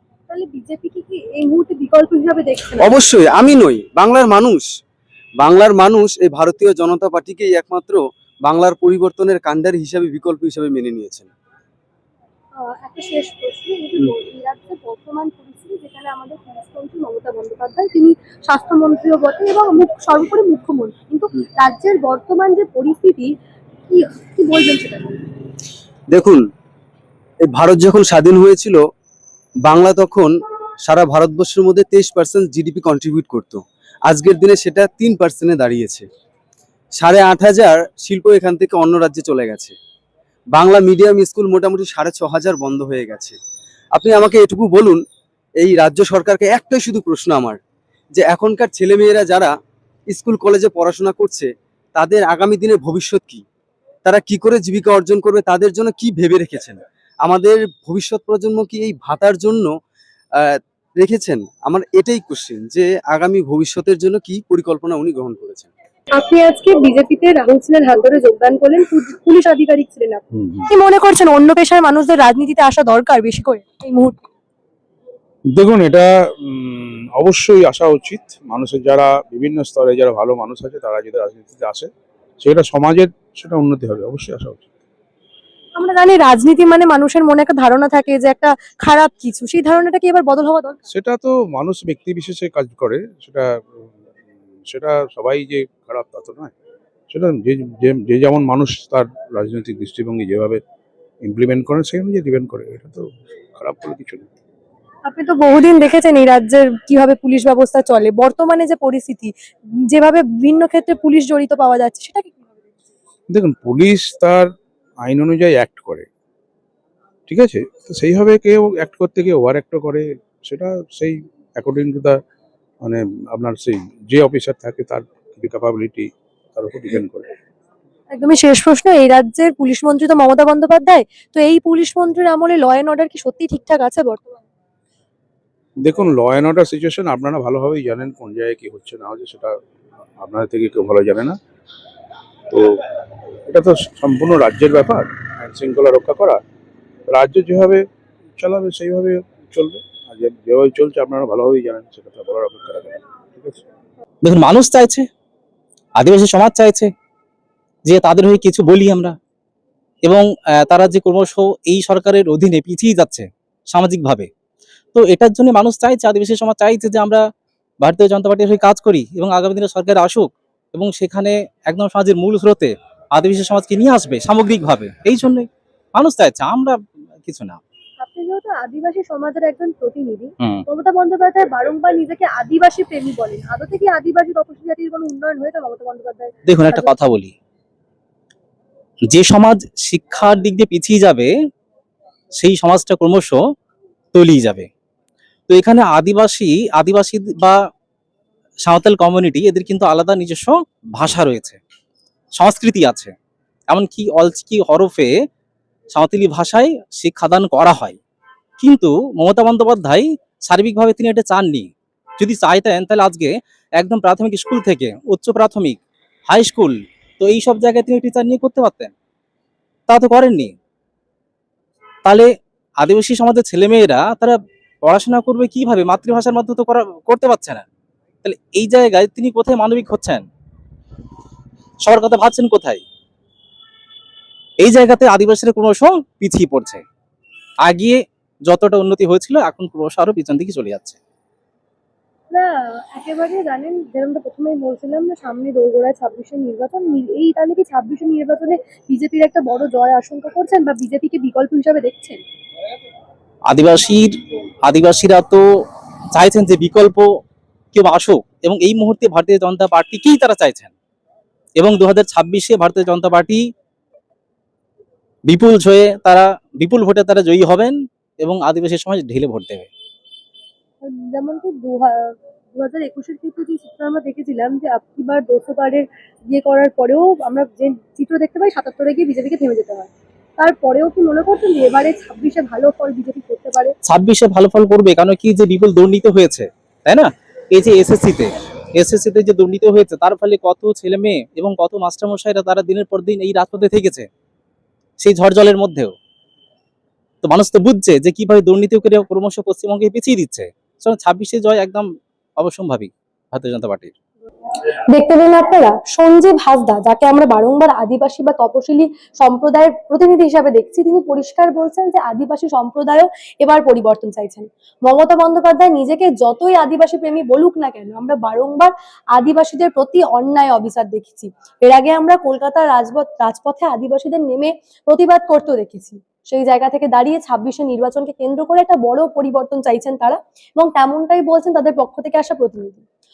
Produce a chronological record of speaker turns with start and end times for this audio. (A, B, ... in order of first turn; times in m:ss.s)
0:00.3-0:03.0 A
0:02.8-0:04.7 B
0:05.4-0:11.3 B
0:12.6-0:23.3 A
0:23.9-0:25.2 A
0:26.1-0:26.5 B
0:27.4-0:28.8 B
0:29.6-0:36.1 B
0:37.0-0:39.8 B
0:40.5-0:43.4 B
0:43.9-0:45.0 B
0:45.6-0:47.6 B
0:48.2-0:49.5 B
0:50.1-0:53.4 B
0:54.0-0:59.7 B
1:00.4-1:05.7 B
1:06.1-1:14.3 A
1:10.3-1:10.7 C
1:15.5-1:24.7 C
1:25.8-1:30.8 A
1:30.9-1:33.9 C
1:34.7-1:36.5 C
1:37.1-1:40.6 C
1:41.3-1:44.3 C
1:45.1-1:49.3 A
1:49.9-1:52.5 A
1:53.3-1:54.5 C
1:55.0-1:56.1 C
1:57.3-2:02.2 C
2:02.8-2:07.3 C
2:08.1-2:14.4 A
2:15.8-2:19.6 C
2:20.2-2:21.4 C
2:22.5-2:22.8 C
2:23.5-2:26.4 C
2:27.1-2:27.8 C
2:28.4-2:33.6 C
2:34.2-2:35.1 D
2:36.0-2:36.9 D
2:37.9-2:39.2 D
2:40.1-2:44.3 D
2:45.0-2:47.2 D
2:47.8-2:57.6 D
2:58.0-3:07.0 A
3:06.5-3:07.3 D
3:09.1-3:11.3 D
3:12.4-3:13.4 D
3:14.1-3:14.7 D
3:15.5-3:17.6 D
3:18.6-3:21.6 D
3:22.4-3:23.1 D
3:23.7-3:25.1 D
3:25.9-3:28.0 D
3:28.6-3:35.8 D
3:36.3-3:38.9 D
3:39.9-3:40.5 D
3:42.8-3:47.6 D
3:48.2-3:50.2 D
3:51.8-3:52.8 D
3:54.6-3:56.8 D
3:57.6-4:01.0 D
4:02.3-4:12.2 A
4:13.5-4:15.4 D
4:16.2-4:17.0 D
4:17.7-4:20.7 D
4:21.6-4:23.4 D
4:25.3-4:29.7 D
4:30.8-4:43.8 A
4:43.9-4:54.1 D
4:55.0-4:56.0 D
4:57.2-5:01.9 D
5:02.4-5:03.9 D
5:04.9-5:32.8 A